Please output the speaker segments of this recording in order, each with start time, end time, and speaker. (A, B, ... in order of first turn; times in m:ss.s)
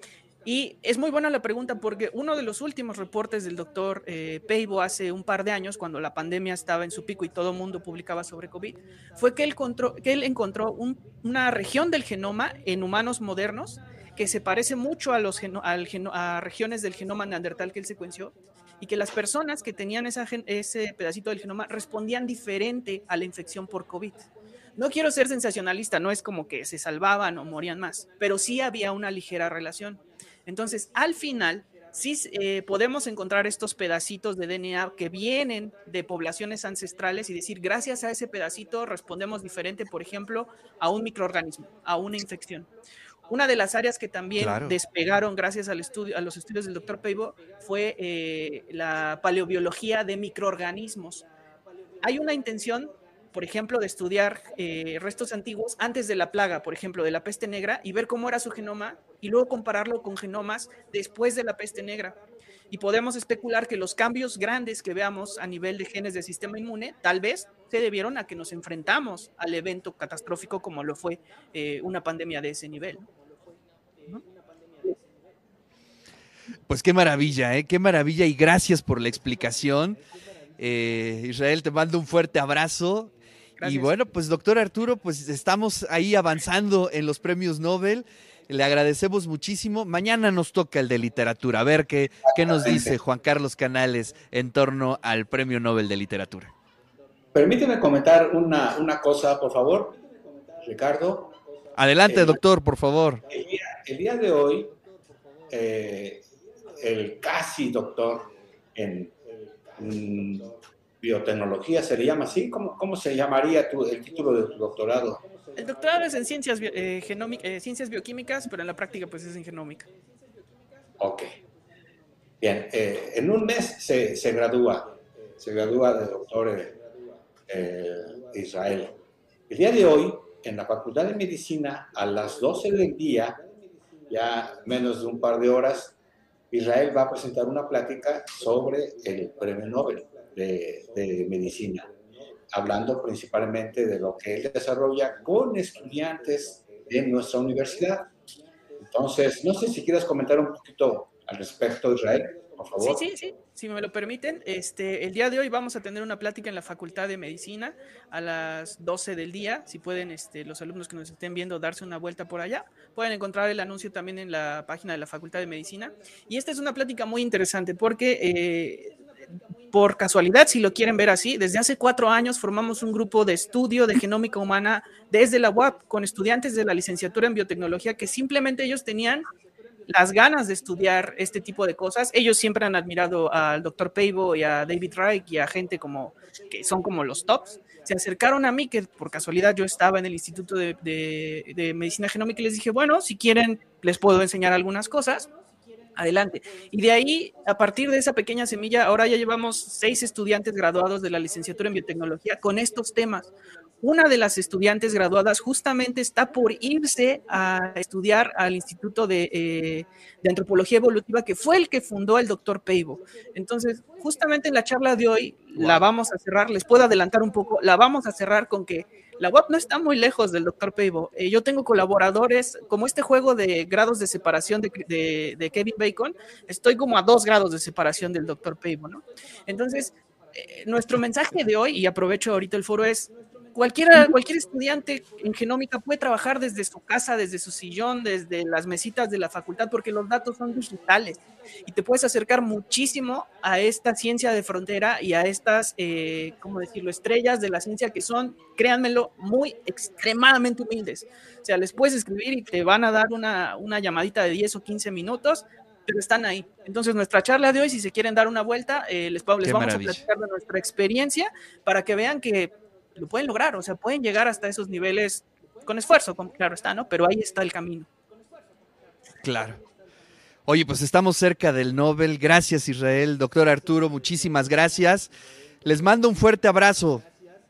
0:00.4-0:42.7 A
0:43.3-0:51.2 A
0:44.4-0:44.7 B
0:52.0-1:02.2 A
1:02.7-1:13.1 A
1:16.7-1:20.0 B
1:20.6-1:36.5 B
1:23.6-1:23.9 A
1:32.2-1:32.9 C
1:37.3-1:40.0 C
1:40.6-1:41.3 C
1:41.7-1:43.2 B
1:42.0-1:42.4 C
1:43.3-1:44.8 C
1:45.5-1:49.2 C
1:49.8-1:55.2 C
1:55.6-1:59.9 A
2:01.0-2:01.3 C
2:02.4-2:06.8 C
2:07.4-2:13.4 C
2:14.1-2:16.0 C
2:16.5-2:21.9 C
2:22.5-2:28.1 C
2:28.9-2:33.0 C
2:32.8-2:49.0 A
2:49.7-2:59.2 A
2:59.9-3:15.3 A
3:16.0-4:27.9 A
4:19.4-4:20.0 B
4:29.2-4:29.6 B
4:30.4-4:35.1 B
4:35.6-4:37.0 B